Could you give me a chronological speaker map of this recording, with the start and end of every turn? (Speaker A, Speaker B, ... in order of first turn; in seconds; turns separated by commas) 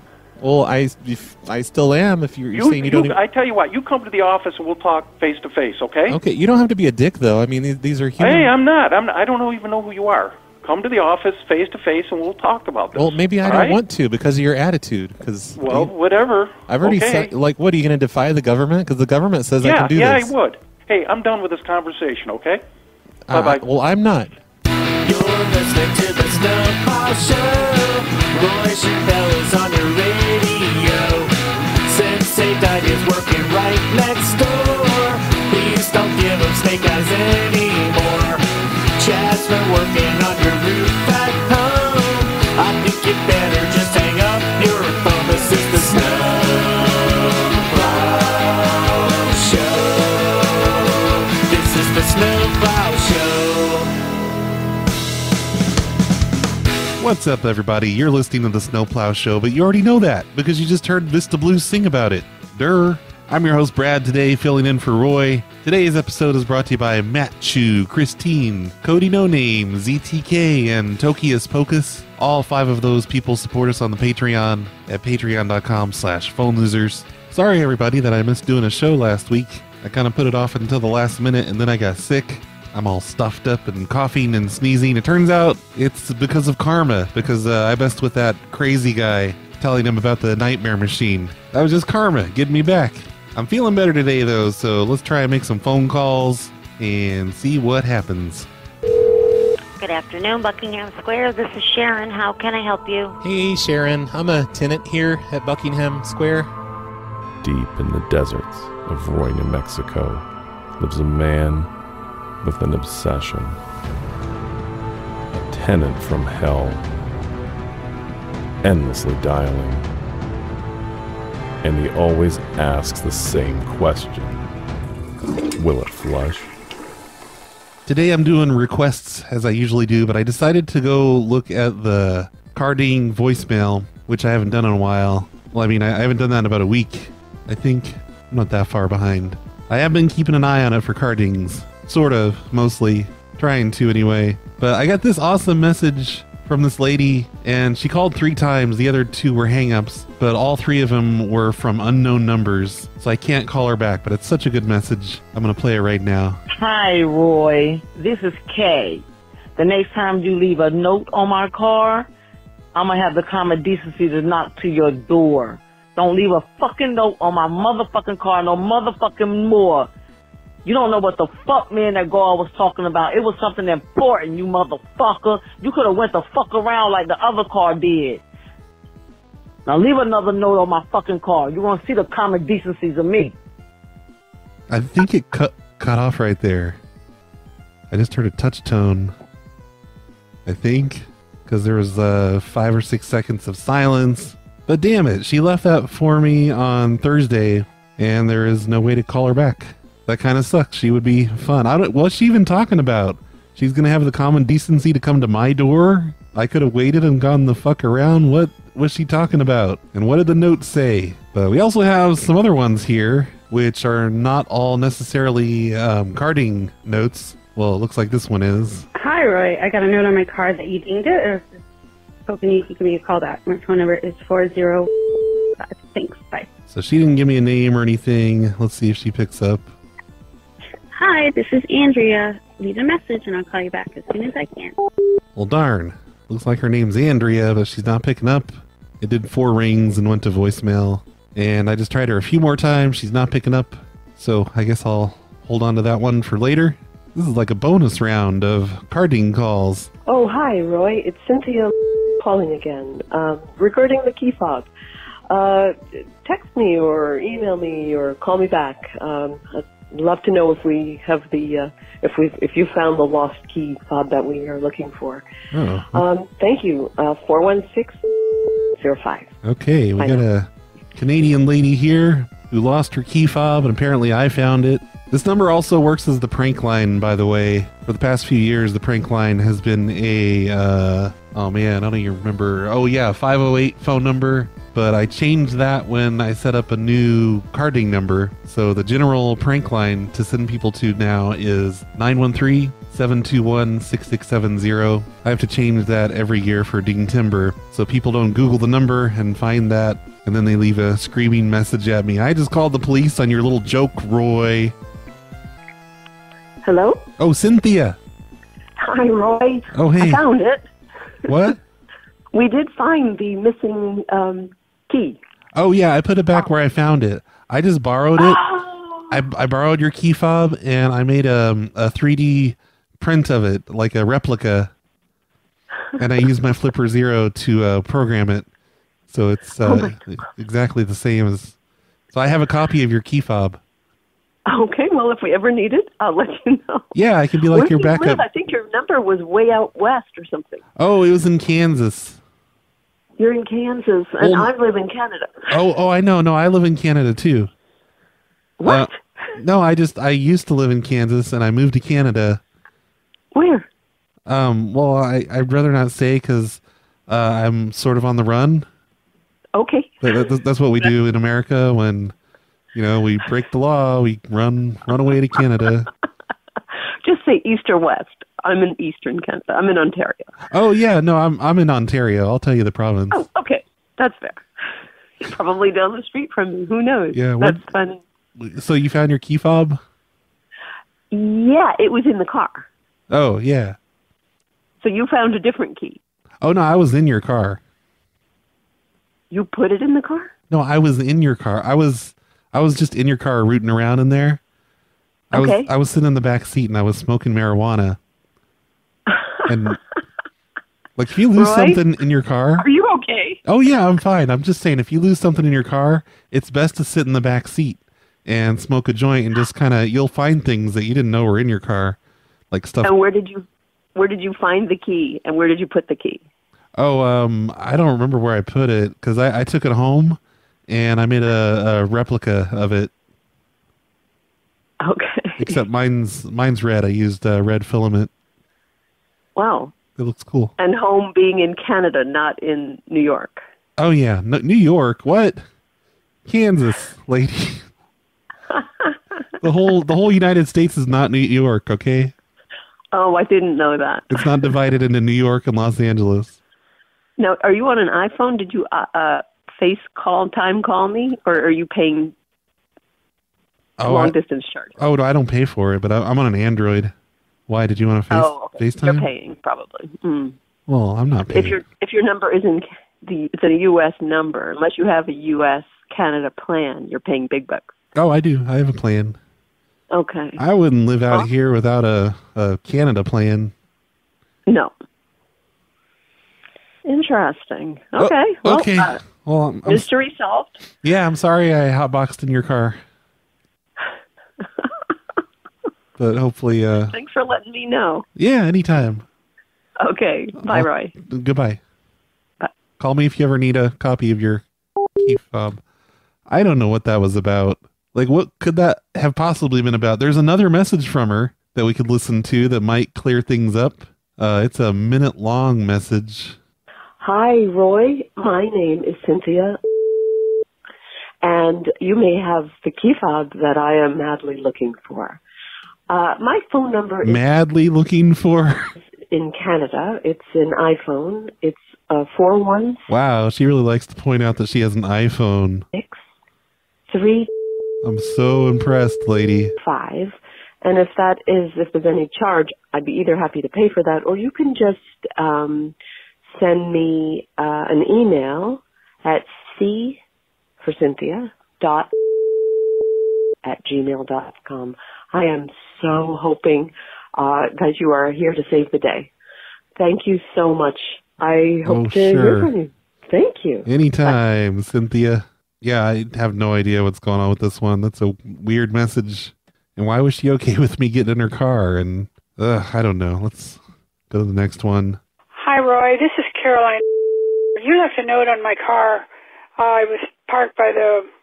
Speaker A: 0.4-3.2, Speaker B: 2.5-6.2, Speaker A: 6.1-8.5, Speaker B: 8.2-13.8, Speaker A: 12.9-15.9, Speaker B: 15.6-17.3, Speaker A: 16.7-20.3, Speaker B: 19.6-22.6, Speaker A: 23.3-24.4, Speaker B: 23.3-23.6, Speaker C: 25.0-31.3, Speaker C: 31.9-38.4, Speaker C: 39.0-53.9, Speaker D: 57.0-98.5, Speaker E: 99.8-103.1, Speaker A: 103.2-106.5, Speaker F: 107.4-110.2, Speaker F: 110.8-111.7, Speaker F: 112.4-113.6, Speaker F: 115.5-116.8, Speaker F: 118.6-119.8, Speaker F: 121.6-124.4, Speaker F: 125.6-126.5, Speaker D: 127.8-156.4, Speaker G: 156.5-159.0, Speaker G: 159.6-162.1, Speaker G: 162.7-169.9, Speaker G: 170.7-178.2, Speaker G: 179.7-183.3, Speaker D: 184.7-186.8, Speaker D: 187.9-189.1, Speaker D: 190.5-218.8, Speaker H: 218.9-221.6, Speaker H: 222.3-224.9, Speaker H: 225.6-226.5, Speaker D: 226.7-229.7, Speaker H: 231.0-234.8, Speaker D: 235.3-249.9, Speaker I: 250.1-254.7, Speaker I: 255.3-265.2, Speaker D: 265.5-266.0, Speaker I: 265.9-268.0, Speaker I: 268.8-269.3, Speaker D: 269.4-304.7, Speaker I: 270.0-270.3, Speaker I: 306.6-307.0, Speaker D: 307.2-308.0, Speaker I: 308.8-310.6, Speaker D: 309.7-310.2, Speaker D: 311.3-311.6, Speaker I: 312.3-315.2, Speaker D: 315.5-318.4, Speaker I: 318.2-319.2, Speaker D: 319.1-324.7, Speaker D: 326.0-328.5, Speaker D: 329.1-331.6, Speaker I: 329.6-330.0, Speaker D: 332.1-333.6, Speaker I: 334.5-336.9, Speaker D: 336.9-338.2, Speaker I: 337.5-340.6, Speaker D: 340.8-342.2, Speaker I: 343.2-345.5, Speaker D: 344.2-344.5, Speaker D: 345.5-347.5, Speaker I: 348.6-348.9, Speaker D: 348.7-352.4, Speaker I: 353.3-353.7, Speaker D: 354.3-358.7, Speaker I: 359.6-360.2, Speaker D: 360.0-362.1, Speaker D: 362.7-365.9, Speaker I: 367.0-370.3, Speaker D: 370.5-373.2, Speaker I: 373.1-374.4, Speaker I: 375.2-378.0, Speaker D: 377.1-377.6, Speaker D: 378.4-379.8, Speaker I: 381.1-382.7, Speaker D: 383.1-383.8, Speaker I: 384.8-386.0, Speaker D: 386.4-387.6, Speaker I: 389.3-390.3, Speaker D: 390.5-394.4, Speaker I: 395.3-395.7, Speaker D: 395.3-398.0, Speaker I: 399.1-399.8, Speaker D: 399.5-399.8, Speaker D: 401.0-402.7, Speaker I: 401.3-401.8, Speaker I: 402.6-403.4, Speaker D: 403.5-412.0, Speaker D: 412.5-412.9, Speaker I: 412.8-416.2, Speaker D: 416.8-422.9, Speaker I: 424.8-425.6, Speaker D: 425.4-428.1, Speaker I: 429.4-429.8, Speaker D: 430.0-430.6, Speaker I: 430.6-433.4, Speaker D: 433.8-435.4, Speaker D: 436.2-437.7, Speaker I: 438.5-439.0, Speaker D: 439.4-442.1, Speaker I: 442.9-444.6, Speaker D: 444.1-446.4, Speaker I: 447.2-452.1, Speaker D: 453.8-454.1, Speaker I: 453.8-454.8, Speaker D: 454.8-456.9, Speaker D: 457.5-459.1, Speaker I: 458.1-460.4, Speaker D: 460.7-461.6, Speaker I: 461.3-467.7, Speaker D: 467.9-469.2, Speaker I: 469.9-470.4, Speaker D: 470.4-473.5, Speaker I: 474.5-474.7, Speaker I: 476.9-479.0, Speaker D: 478.0-479.9, Speaker I: 479.7-480.6, Speaker D: 480.8-482.8, Speaker D: 486.0-486.9, Speaker I: 486.9-488.1, Speaker D: 488.2-489.1, Speaker I: 489.8-490.9, Speaker D: 490.4-491.6, Speaker D: 492.8-494.4, Speaker D: 495.0-495.6, Speaker D: 496.3-506.4, Speaker I: 507.0-509.6, Speaker I: 511.2-515.2, Speaker I: 515.9-517.2, Speaker D: 517.0-518.7, Speaker I: 519.1-522.9, Speaker D: 522.9-525.7, Speaker I: 525.7-526.0, Speaker I: 526.9-527.3, Speaker D: 527.8-529.5, Speaker I: 529.6-540.0, Speaker I: 540.6-541.9, Speaker I: 543.4-549.1, Speaker I: 549.8-554.2, Speaker D: 551.6-552.5, Speaker D: 553.6-565.0, Speaker J: 565.4-566.8, Speaker J: 567.6-569.1, Speaker J: 569.6-571.1